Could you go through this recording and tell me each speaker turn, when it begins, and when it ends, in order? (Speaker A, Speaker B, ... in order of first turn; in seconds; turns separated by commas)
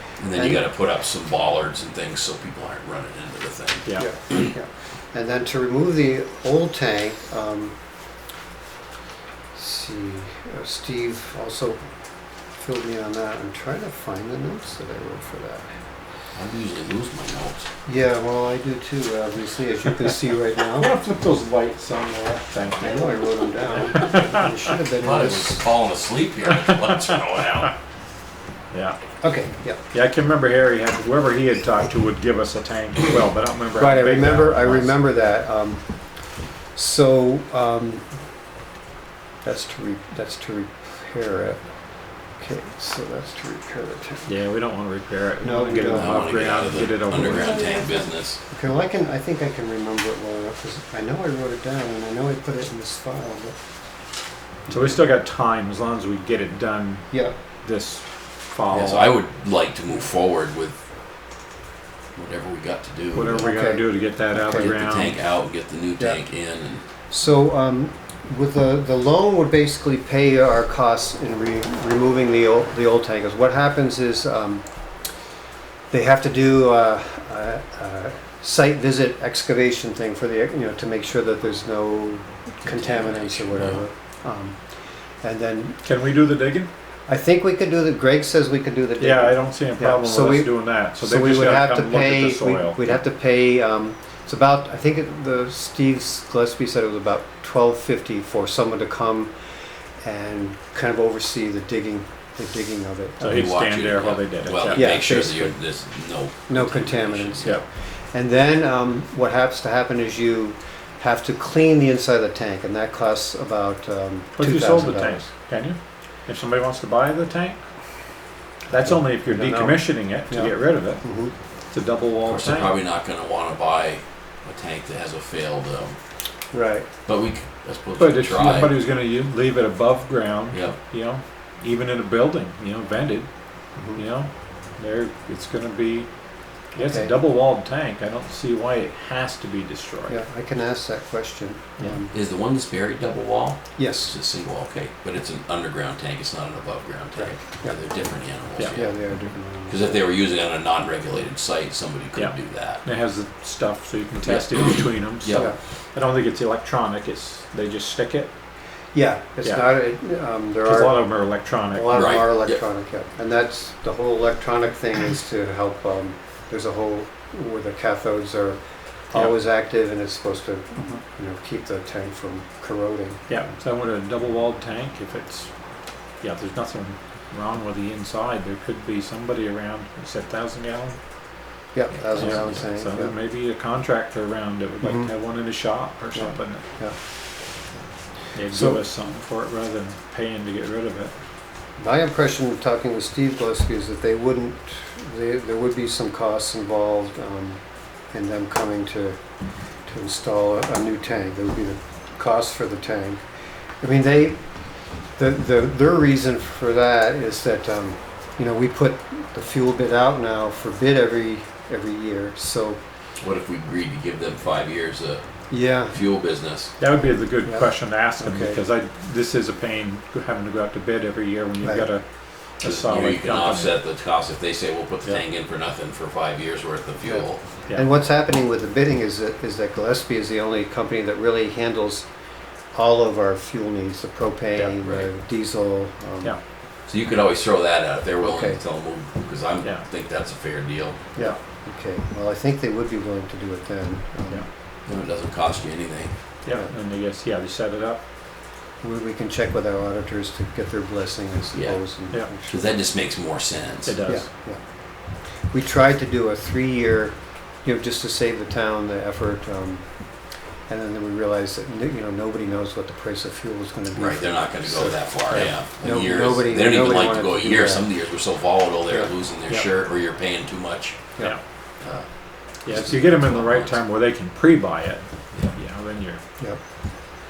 Speaker A: 0.2-4.5, Speaker B: 0.3-0.6, Speaker B: 4.0-7.8, Speaker B: 9.5-11.8, Speaker B: 12.6-15.7, Speaker A: 16.4-17.7, Speaker B: 17.9-20.9, Speaker C: 20.8-23.3, Speaker B: 22.8-25.6, Speaker C: 23.8-24.4, Speaker A: 25.0-27.7, Speaker C: 28.7-29.0, Speaker B: 29.2-29.8, Speaker C: 29.9-35.0, Speaker B: 33.8-35.8, Speaker B: 36.8-38.0, Speaker B: 39.4-41.6, Speaker B: 42.4-44.3, Speaker C: 44.3-47.8, Speaker B: 45.4-46.3, Speaker A: 45.9-48.4, Speaker B: 47.3-53.5, Speaker B: 54.7-55.0, Speaker C: 54.7-59.2, Speaker B: 57.1-57.4, Speaker A: 58.7-60.8, Speaker A: 62.1-63.5, Speaker C: 63.1-65.2, Speaker B: 63.3-64.7, Speaker A: 64.6-66.8, Speaker B: 67.1-74.6, Speaker B: 75.9-84.6, Speaker A: 82.6-83.8, Speaker B: 85.2-85.8, Speaker C: 85.8-86.7, Speaker B: 87.1-99.3, Speaker C: 89.0-93.0, Speaker B: 100.0-103.4, Speaker C: 103.2-105.0, Speaker A: 103.2-107.6, Speaker B: 104.7-105.6, Speaker B: 106.5-115.3, Speaker C: 114.3-117.6, Speaker C: 118.7-121.0, Speaker B: 118.8-121.3, Speaker C: 121.7-122.7, Speaker A: 122.2-126.0, Speaker B: 126.5-126.9, Speaker A: 127.0-128.8, Speaker C: 128.0-133.3, Speaker A: 130.5-130.8, Speaker B: 133.8-134.0, Speaker C: 133.9-136.1, Speaker C: 136.7-140.2, Speaker B: 136.8-137.1, Speaker B: 140.1-142.1, Speaker A: 142.1-149.0, Speaker B: 143.8-144.1, Speaker B: 147.1-147.8, Speaker B: 148.7-150.0, Speaker A: 149.7-152.8, Speaker C: 152.2-158.3, Speaker A: 154.2-155.5, Speaker B: 158.9-161.1, Speaker C: 160.6-161.9, Speaker B: 161.7-168.6, Speaker A: 161.9-162.6, Speaker B: 169.1-173.3, Speaker C: 173.3-175.5, Speaker C: 176.2-181.0, Speaker B: 181.7-183.1, Speaker A: 182.0-182.5, Speaker C: 182.2-186.6, Speaker B: 184.8-185.1, Speaker B: 186.1-186.9, Speaker C: 188.3-191.1, Speaker B: 188.5-188.8, Speaker B: 191.8-197.6, Speaker B: 198.1-199.2, Speaker B: 199.9-203.2, Speaker B: 203.8-204.4, Speaker B: 205.2-212.8, Speaker A: 213.2-215.2, Speaker B: 215.5-216.0, Speaker A: 215.9-216.7, Speaker C: 216.8-222.0, Speaker B: 217.4-218.6, Speaker B: 221.6-221.8, Speaker C: 222.6-223.8, Speaker A: 222.6-227.4, Speaker B: 227.0-232.1, Speaker B: 232.7-236.4, Speaker A: 236.9-241.0, Speaker B: 238.2-238.6, Speaker B: 241.2-244.5, Speaker A: 244.9-246.1, Speaker C: 246.4-248.0, Speaker B: 248.8-252.7, Speaker A: 251.5-254.1, Speaker C: 253.8-254.2, Speaker B: 254.1-254.6, Speaker B: 255.5-259.8, Speaker B: 260.7-267.9, Speaker A: 263.9-271.1, Speaker A: 271.8-273.8, Speaker C: 272.6-276.2